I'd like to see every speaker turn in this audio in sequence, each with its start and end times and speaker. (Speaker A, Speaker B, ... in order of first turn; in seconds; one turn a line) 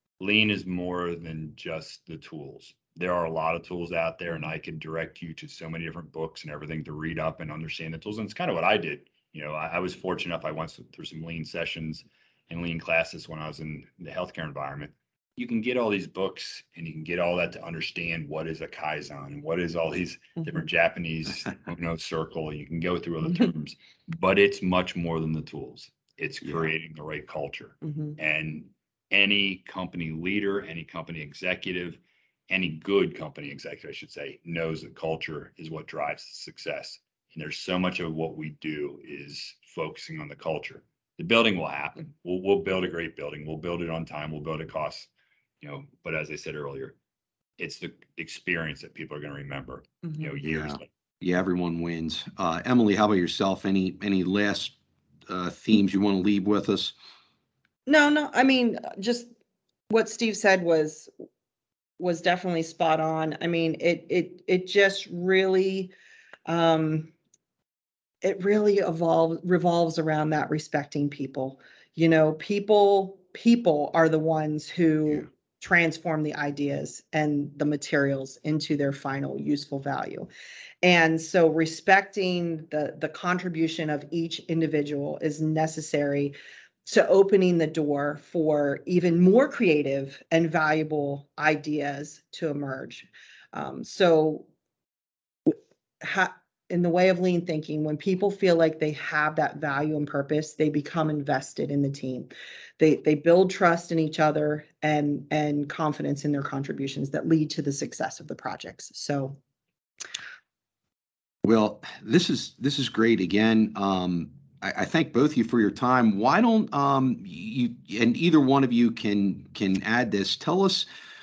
Speaker A: 0.2-45.1
Speaker B: 26.4-26.7
Speaker C: 27.9-28.1
Speaker A: 45.6-46.9
Speaker A: 47.6-50.9
Speaker B: 50.4-54.7
Speaker B: 55.3-56.9
Speaker C: 57.9-59.3
Speaker C: 59.9-61.1
Speaker C: 62.0-65.9
Speaker C: 66.5-67.1
Speaker C: 68.2-80.3
Speaker C: 80.8-86.3
Speaker C: 86.8-94.5
Speaker C: 95.5-109.4
Speaker B: 111.4-120.8